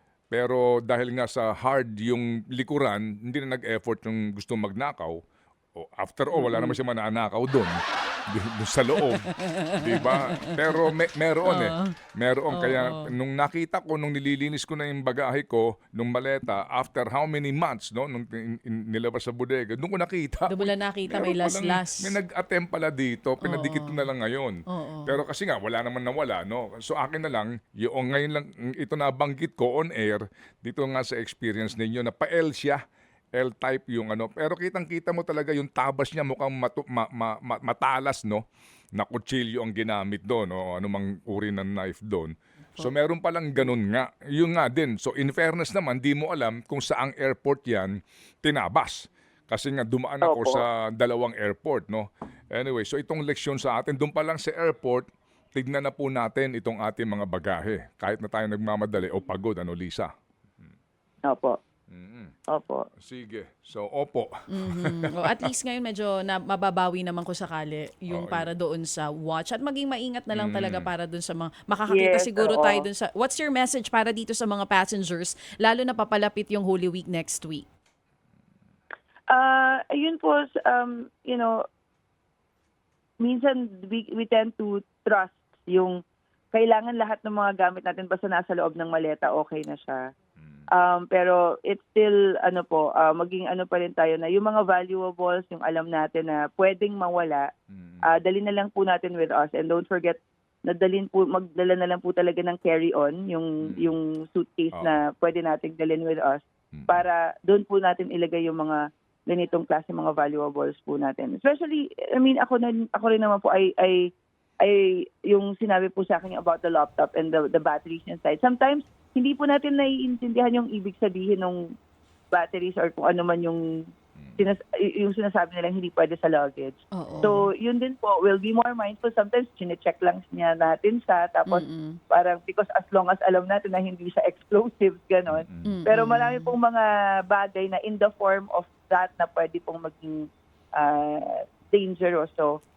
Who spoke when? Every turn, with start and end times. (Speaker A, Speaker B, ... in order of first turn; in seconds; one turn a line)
Speaker A: 0.3-5.2
Speaker A: 5.7-7.8
Speaker B: 6.3-6.8
Speaker A: 8.3-32.8
Speaker B: 9.0-10.9
Speaker B: 11.4-11.9
Speaker B: 12.5-13.1
Speaker B: 20.5-22.1
Speaker B: 23.4-24.1
Speaker B: 24.7-25.2
Speaker A: 33.4-60.7
Speaker C: 50.2-50.6
Speaker C: 61.3-61.6
Speaker A: 61.9-62.3
Speaker C: 62.5-62.9
Speaker A: 63.0-65.5
Speaker B: 64.5-77.7
Speaker A: 68.1-68.5
Speaker A: 70.3-70.9
Speaker C: 71.9-72.9
Speaker C: 79.3-81.5
Speaker C: 83.2-86.0
Speaker C: 86.5-90.0
Speaker A: 90.4-90.7
Speaker C: 90.7-97.5
Speaker A: 97.7-98.1
Speaker C: 98.0-114.0
Speaker A: 103.6-103.9
Speaker A: 104.7-105.0
Speaker A: 106.7-107.0
Speaker C: 114.6-121.6
Speaker C: 122.3-123.6
Speaker A: 124.2-124.4
Speaker C: 124.4-140.2
Speaker B: 126.9-127.4
Speaker B: 131.5-132.0
Speaker A: 135.3-135.7
Speaker B: 135.7-136.6
Speaker C: 140.8-142.5